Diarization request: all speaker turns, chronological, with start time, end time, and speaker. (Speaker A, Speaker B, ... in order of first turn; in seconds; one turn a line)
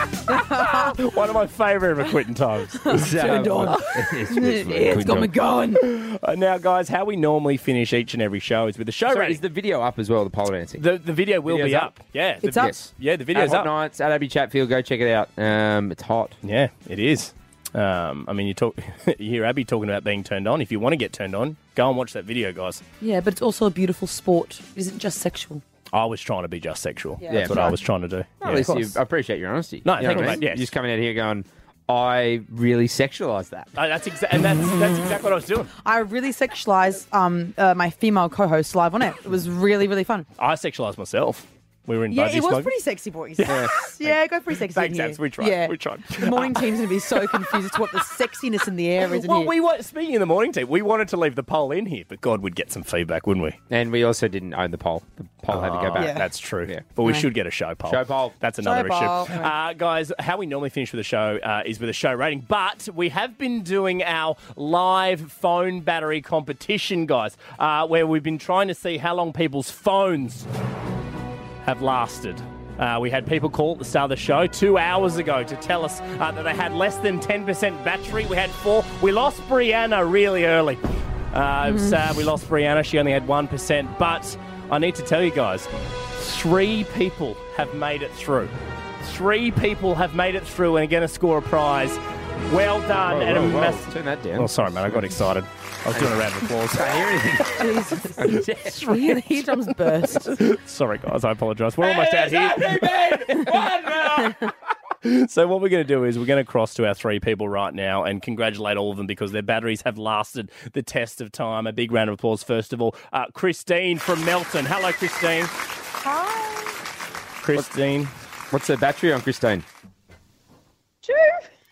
Speaker A: 0.3-1.0
Speaker B: 0.6-3.1
Speaker A: 2.8-5.8
Speaker C: 2.9-5.3
Speaker B: 5.8-9.4
Speaker C: 9.1-10.8
Speaker B: 10.8-13.7
Speaker C: 11.5-11.9
Speaker A: 12.4-12.8
Speaker C: 12.5-12.8
Speaker C: 13.3-16.4
Speaker B: 16.4-22.8
Speaker A: 23.0-25.6
Speaker B: 25.9-28.8
Speaker A: 27.2-27.8
Speaker C: 27.3-27.8
Speaker C: 28.4-33.7
Speaker A: 28.4-28.9
Speaker B: 29.9-30.7
Speaker B: 33.8-35.7
Speaker A: 35.8-40.3
Speaker B: 40.4-42.7
Speaker A: 42.1-49.5
Speaker B: 43.4-44.1
Speaker C: 43.5-43.7
Speaker B: 44.7-46.7
Speaker B: 49.0-53.6
Speaker C: 53.7-56.1
Speaker B: 55.5-70.5
Speaker A: 56.0-56.2
Speaker C: 57.9-58.3
Speaker A: 58.6-59.5
Speaker B: 71.6-80.8
Speaker B: 81.3-96.9
Speaker A: 81.7-82.0
Speaker C: 93.0-95.2
Speaker C: 95.9-99.0
Speaker A: 97.6-100.3
Speaker B: 100.3-103.6
Speaker C: 101.8-104.4
Speaker B: 105.0-115.5
Speaker B: 117.4-118.1
Speaker C: 118.5-119.7